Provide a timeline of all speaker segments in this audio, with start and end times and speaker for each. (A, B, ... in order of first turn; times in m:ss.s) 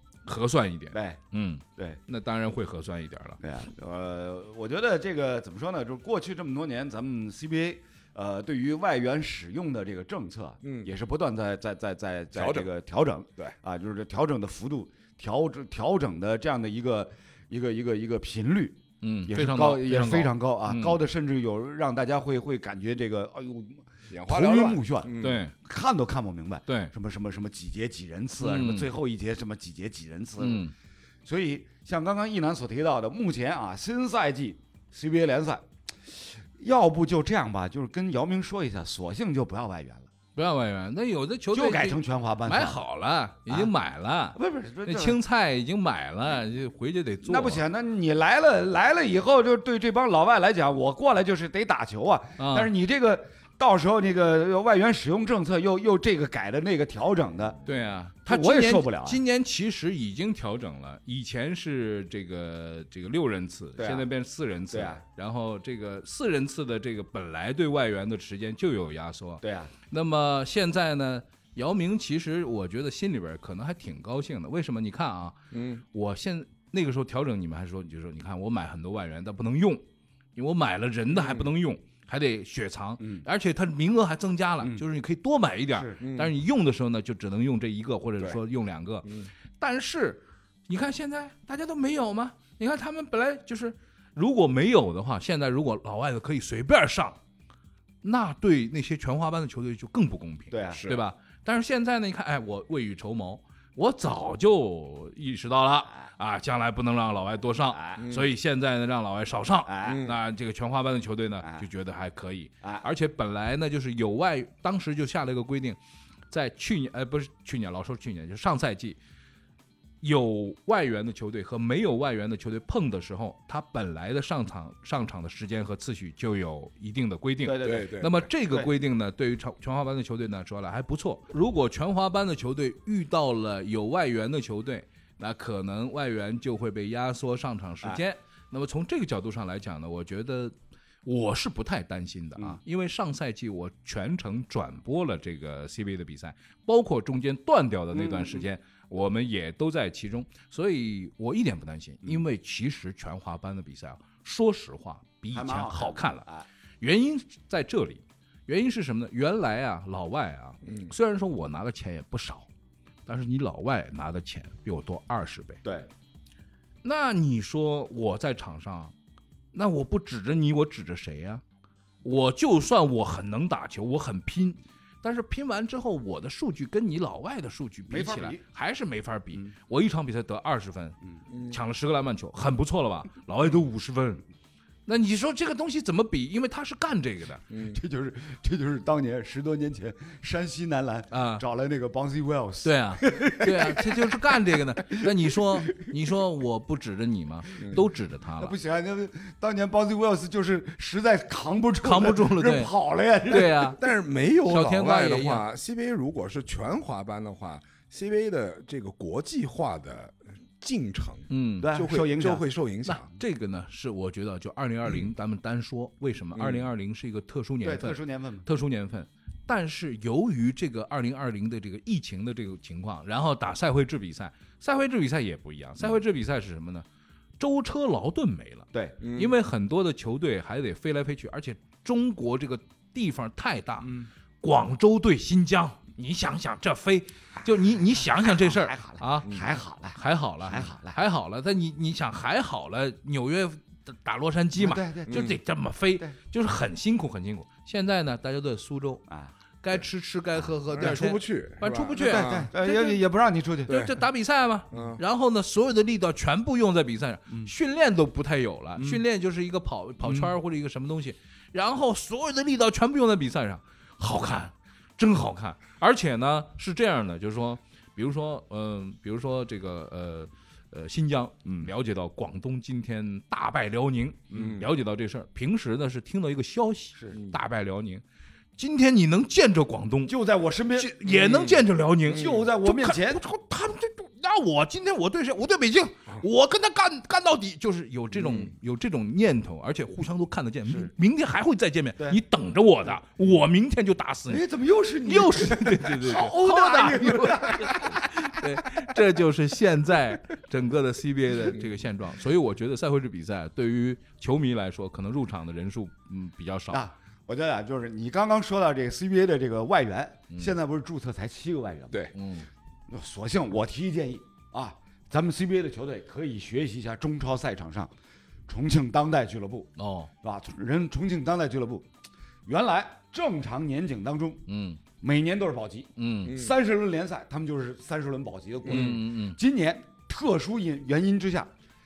0:00.3-0:03.4 A
0:00.9-0:01.2 B
0:03.4-0:30.7 B
0:10.6-0:10.9 C
0:12.4-0:12.7 C
0:19.0-0:21.0 A
0:24.1-0:25.4 C
0:25.2-0:25.5 A
0:26.7-0:26.9 A
0:28.4-0:28.9 A
0:30.4-0:30.7 A
0:31.2-0:40.1 B
0:40.4-0:47.6 A
0:41.5-0:42.8 B
0:44.4-0:45.2 B
0:47.2-0:57.6 B
0:52.4-0:52.7 A
0:57.7-1:15.4 A
0:58.3-0:59.2 B
1:03.8-1:04.1 B
1:04.7-1:05.0 B
1:09.4-1:09.7 B
1:15.5-1:15.8 C
1:15.9-1:19.8 A
1:20.4-1:37.2 A
1:21.1-1:21.5 C
1:26.0-1:26.3 C
1:38.0-1:55.8 A
1:40.5-1:40.8 B
1:40.7-1:41.0 C
1:47.7-1:48.0 B
1:48.0-1:48.3 C
1:49.6-1:50.0 B
1:49.8-1:50.2 C
1:56.3-1:59.0 A
2:00.0-2:36.2 A
2:07.4-2:07.9 B
2:07.6-2:08.2 C
2:27.9-2:28.5 B
2:35.3-2:36.5 B
2:36.8-2:42.5 A
2:40.6-2:40.9 C
2:43.1-2:45.6 A
2:45.6-2:45.9 B
2:46.8-2:48.9 A
2:49.5-2:51.4 A
2:52.0-3:01.0 A
2:57.9-2:58.4 B
3:01.3-3:01.6 C
3:01.5-3:04.2 A
3:04.9-3:07.5 A
3:07.5-3:07.8 C
3:07.7-3:15.9 B
3:11.1-3:11.4 A
3:12.6-3:18.6 A
3:18.4-3:23.8 B
3:21.8-3:22.7 A
3:23.3-3:23.8 A
3:23.3-3:33.1 C
3:24.5-3:25.4 A
3:31.3-3:31.7 A
3:31.6-3:32.4 B
3:32.9-3:46.8 A
3:36.4-3:36.7 C
3:37.6-3:38.5 B
3:47.4-3:59.4 A
3:48.7-3:49.0 B
3:49.0-3:49.3 C
3:53.8-3:54.1 B
3:57.9-4:01.0 B
3:59.9-4:09.0 A
4:04.6-4:05.3 B
4:05.1-4:05.4 C
4:09.6-4:13.0 A
4:10.7-4:12.5 C
4:12.0-4:14.0 B
4:13.7-4:38.0 A
4:14.7-4:15.0 C
4:18.8-4:19.0 B
4:20.0-4:20.4 B
4:34.3-4:34.7 C
4:38.6-4:40.1 A
4:40.1-4:41.4 B
4:40.8-4:54.5 A
4:41.1-4:42.4 C
4:42.1-4:43.2 B
4:48.1-4:48.5 C
4:54.3-4:58.4 B
4:55.0-5:06.9 A
5:06.7-5:12.0 B
5:12.1-5:12.5 A
5:12.9-5:17.9 B
5:18.5-5:21.9 B
5:19.8-5:20.1 A
5:22.5-5:24.5 B
5:24.5-5:24.8 A
5:25.0-5:31.5 B
5:26.0-5:26.3 A
5:26.3-5:26.5 C
5:28.6-5:29.0 C
5:28.7-5:29.4 A